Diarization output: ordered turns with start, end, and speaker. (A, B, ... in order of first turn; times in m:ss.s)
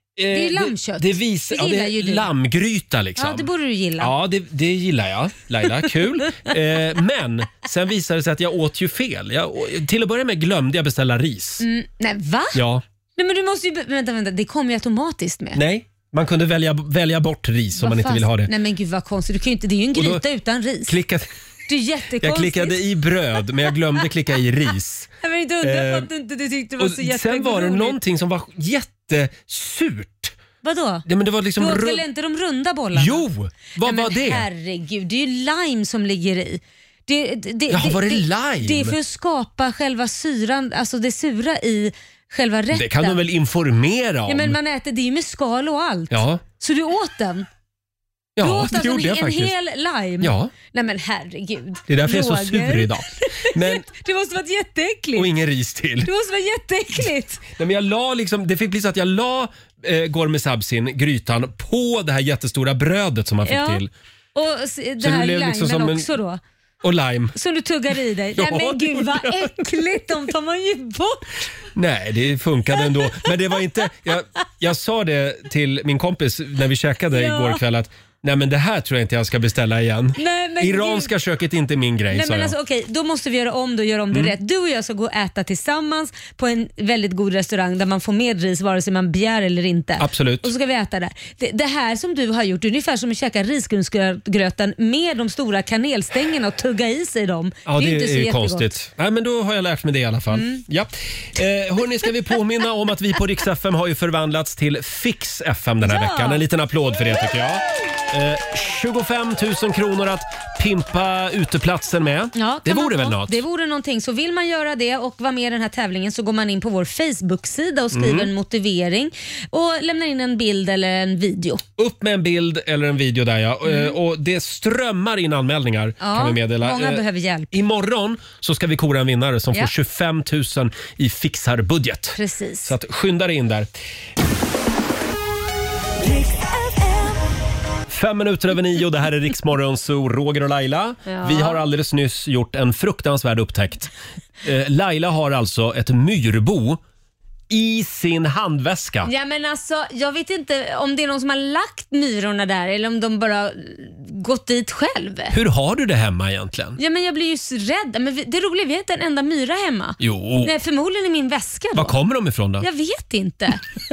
0:00.2-0:03.5 A
0:00.3-0:02.3 B
0:03.2-0:04.1 B
0:04.0-0:11.6 A
0:11.6-0:12.6 B
0:12.6-0:12.8 A
0:13.2-0:15.6 B
0:15.6-0:18.5 A
0:17.8-0:21.0 B
0:20.0-0:20.2 A
0:20.9-0:21.3 A
0:21.7-0:22.8 B
0:22.2-0:26.1 A
0:25.2-0:28.0 B
0:26.8-0:30.3 A
0:30.6-0:31.0 B
0:31.1-0:32.0 A
0:31.6-0:33.3 B
0:32.9-0:34.5 A
0:33.8-0:43.2 B
0:37.7-0:39.0 A
0:42.7-0:44.6 A
0:44.3-0:47.5 B
0:46.1-0:46.4 A
0:48.4-0:49.6 A
0:48.4-0:55.3 B
0:50.2-0:50.5 A
0:51.9-0:53.9 A
0:55.2-0:56.1 A
0:56.0-0:57.4 B
0:57.5-1:03.9 A
1:03.4-1:03.8 B
1:04.4-1:06.4 B
1:05.0-1:06.1 A
1:06.8-1:07.4 A
1:07.4-1:11.4 B
1:08.4-1:09.5 A
1:11.8-1:22.6 A
1:17.1-1:17.6 B
1:20.2-1:21.1 B
1:22.1-1:38.6 B
1:30.0-1:30.5 A
1:37.7-1:53.4 A
1:40.3-1:40.6 B
1:45.8-1:46.4 B
1:52.4-2:01.6 B
1:57.9-1:58.3 A
2:01.8-2:13.7 A
2:03.7-2:04.0 B
2:06.0-2:07.5 B
2:12.2-2:12.7 B
2:17.9-2:23.9 A
2:21.1-2:21.6 B
2:24.4-2:26.8 A
2:27.5-2:29.1 A
2:29.0-2:35.4 B
2:35.3-2:36.8 A
2:36.8-2:42.0 B
2:40.0-2:40.5 A
2:41.8-2:42.7 A
2:42.6-2:43.6 B